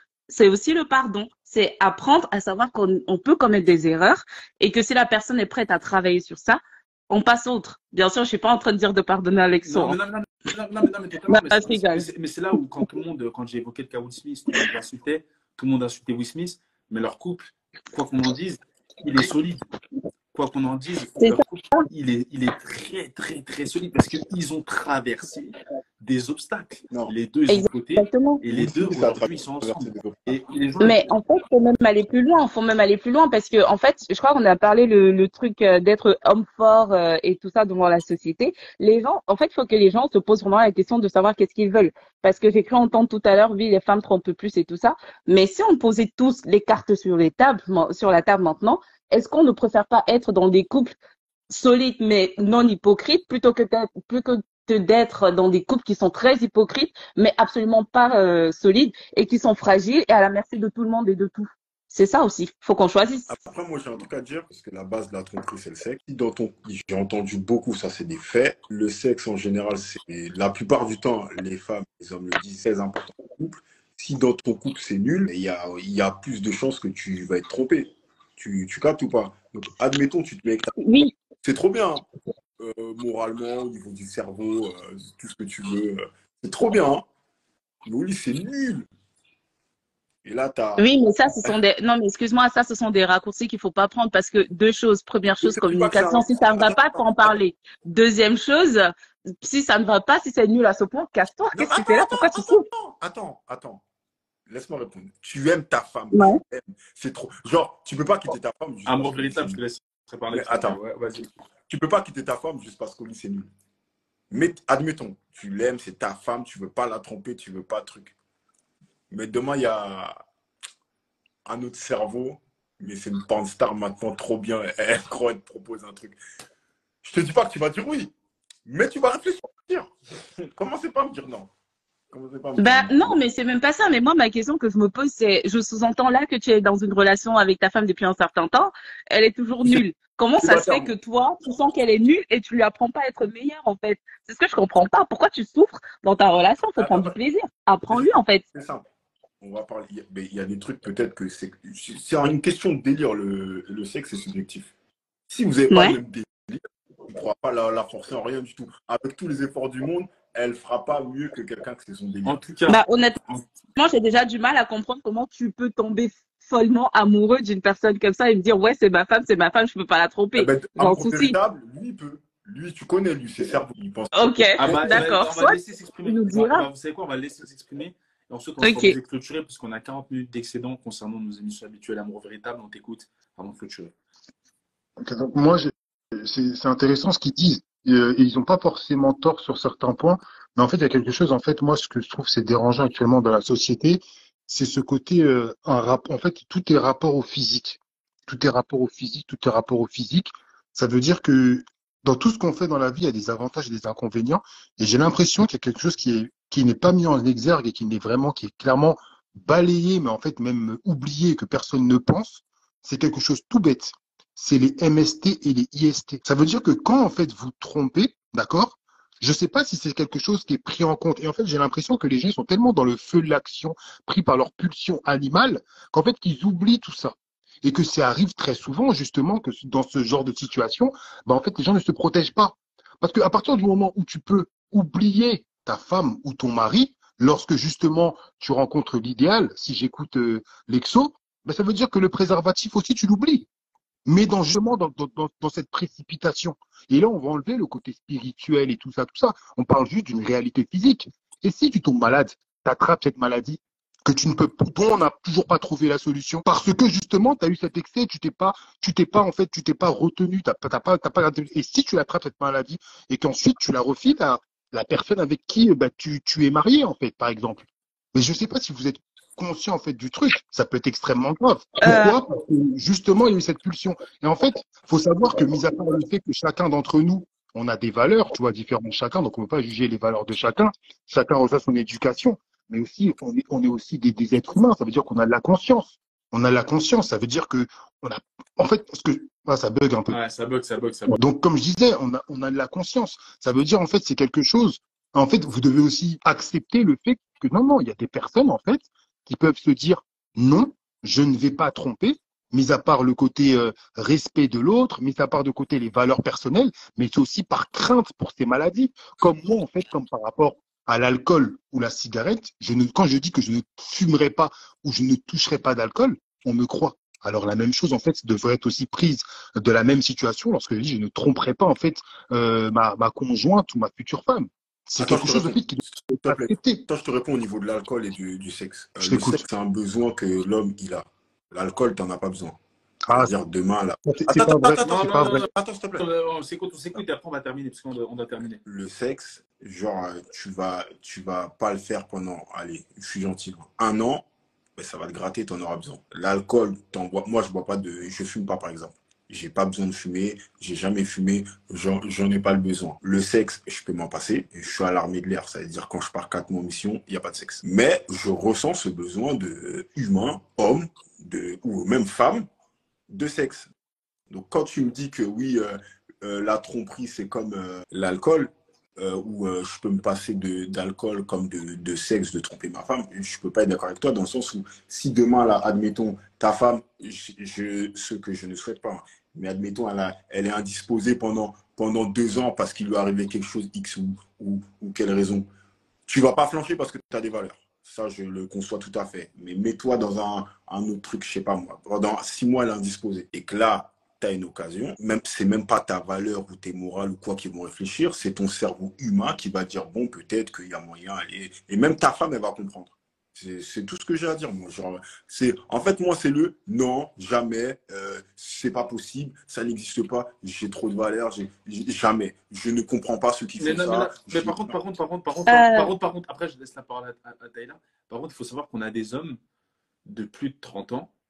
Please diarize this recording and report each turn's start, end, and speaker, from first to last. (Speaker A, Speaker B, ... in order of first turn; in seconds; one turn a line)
Speaker A: 0.3-10.0
Speaker B: 9.7-19.6
Speaker A: 11.3-12.1
Speaker B: 20.3-31.1
Speaker A: 21.2-21.9
Speaker A: 27.5-28.4
Speaker C: 28.5-30.4
Speaker A: 30.8-50.9
Speaker A: 51.5-63.3
Speaker C: 63.3-80.7
Speaker A: 80.8-81.1
Speaker C: 81.4-82.0
Speaker C: 82.6-87.0
Speaker C: 87.8-88.9
Speaker C: 90.2-90.8
Speaker A: 90.8-102.6
Speaker C: 95.4-97.3
Speaker C: 101.5-103.8
Speaker C: 104.5-109.6
Speaker A: 106.1-106.4
Speaker B: 108.9-111.3
Speaker C: 110.3-110.8
Speaker C: 111.7-113.5
Speaker C: 114.3-118.1
Speaker C: 119.1-120.2
Speaker C: 121.5-126.2
Speaker C: 127.0-128.1
Speaker C: 128.7-131.5
Speaker C: 132.1-133.2
Speaker A: 132.6-148.4
Speaker C: 140.4-140.9
Speaker C: 146.8-147.2
Speaker C: 147.9-148.8
Speaker C: 149.4-154.7
Speaker C: 155.3-162.4
Speaker A: 155.7-156.0
Speaker B: 162.2-162.8
Speaker A: 162.7-163.2
Speaker A: 163.8-171.4
Speaker C: 170.3-175.2
Speaker A: 174.1-176.7
Speaker B: 174.6-183.9
Speaker A: 178.6-178.9
Speaker D: 185.0-243.5
Speaker D: 244.1-290.2
Speaker A: 271.8-272.1
Speaker B: 290.1-291.2
Speaker D: 291.1-326.8
Speaker C: 325.0-332.6
Speaker D: 329.0-329.4
Speaker D: 333.1-333.5
Speaker C: 333.1-336.0
Speaker D: 334.0-335.5
Speaker B: 334.8-338.6
Speaker C: 338.6-344.2
Speaker C: 344.8-362.5
Speaker C: 363.1-363.7
Speaker C: 364.3-385.5
Speaker C: 386.1-414.8
Speaker B: 413.6-419.4
Speaker A: 415.5-415.9
Speaker B: 420.1-421.1